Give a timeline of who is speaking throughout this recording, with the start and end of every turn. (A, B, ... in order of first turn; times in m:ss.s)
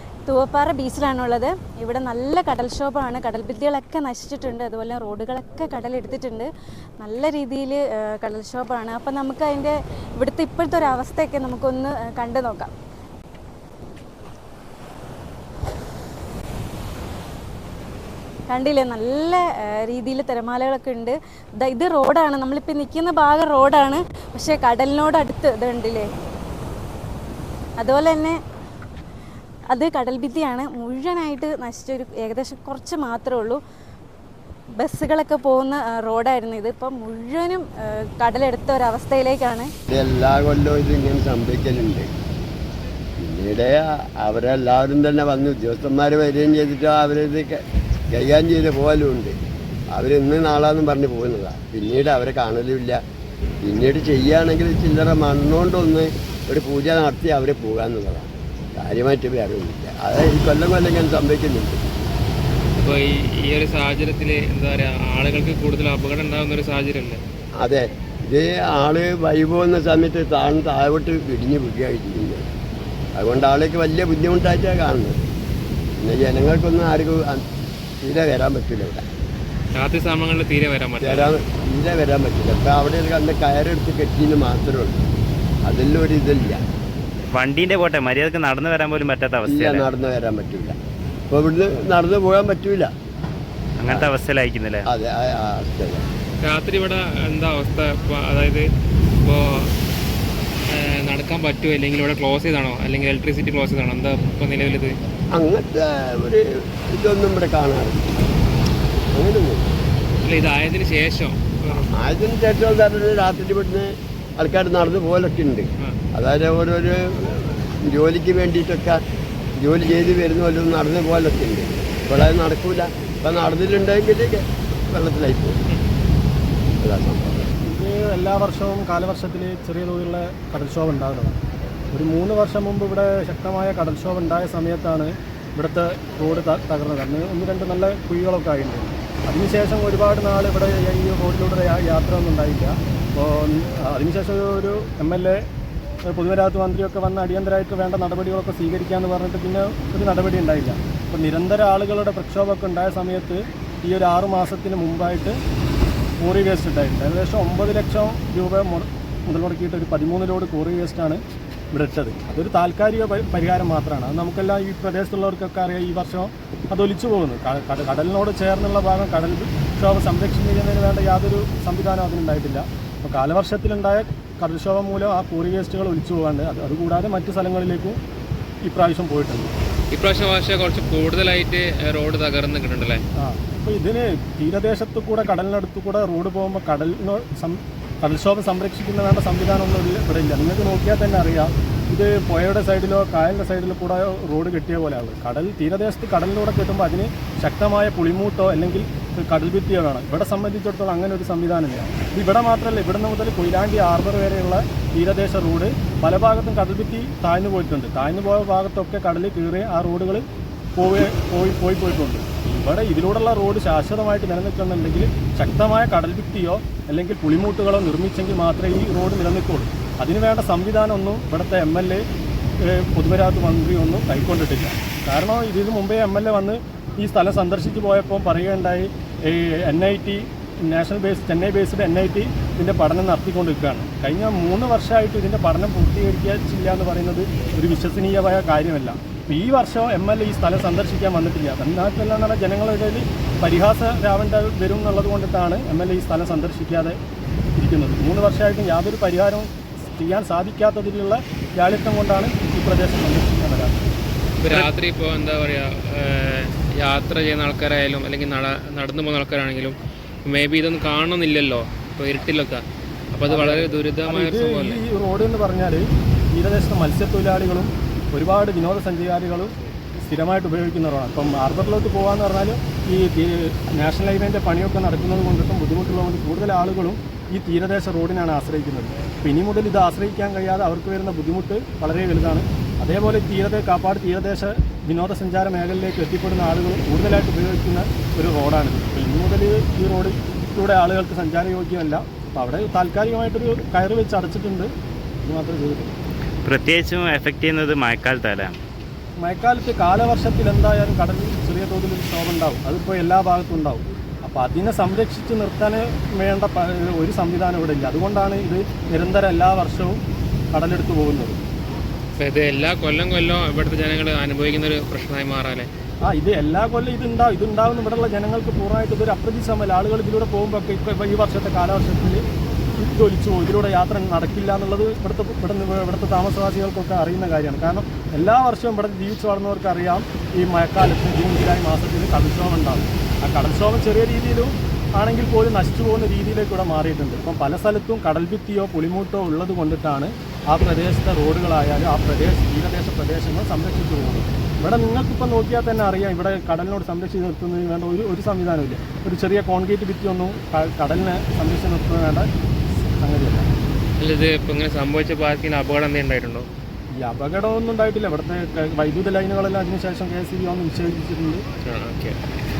0:00.3-0:06.5 A
0:07.0-0:12.7 A
0:18.5-0:26.1 A
0:27.8-0:28.4 A
0:29.7-0:33.6 A
0:34.8-0:39.7 A
0:39.9-0:42.1 B
0:43.2-0:49.4 B
0:49.9-0:53.0 B
0:53.6-1:01.9 B
1:02.8-1:07.2 C
1:07.6-1:12.5 B
1:13.2-1:15.2 B
1:16.0-1:17.4 B
1:18.0-1:19.1 B
1:19.8-1:21.3 C
1:21.0-1:25.0 B
1:25.7-1:26.6 B
1:27.3-1:29.9 D
1:29.4-1:30.8 B
1:31.3-1:32.9 B
1:33.8-1:34.9 D
1:33.9-1:34.1 B
1:34.8-1:36.1 B
1:36.4-1:38.7 C
1:39.2-1:39.7 C
1:40.7-1:45.0 C
1:45.3-1:48.1 B
1:49.1-1:49.7 B
1:50.2-1:51.9 C
1:51.9-1:59.0 B
1:59.6-2:05.6 B
2:06.8-2:07.5 B
2:07.6-2:11.4 E
2:11.9-2:25.5 E
2:26.1-2:35.4 E
2:36.2-2:41.2 E
2:41.7-2:58.0 E
2:58.6-2:59.5 E
2:59.9-3:03.0 C
3:03.2-3:30.2 E
3:30.8-3:42.0 E
3:42.6-4:07.0 E
4:07.6-4:13.8 E
4:14.4-4:24.8 C
4:23.3-4:54.7 E
4:55.2-4:55.9 E
4:56.4-4:58.5 D
4:59.2-5:10.0 E
5:10.5-5:11.4 E
5:12.2-5:15.7 C
5:16.0-5:22.2 E
5:22.7-5:52.3 E
5:53.0-5:53.5 E
5:54.0-5:56.5 C
5:56.9-6:01.4 E
6:01.6-6:02.2 C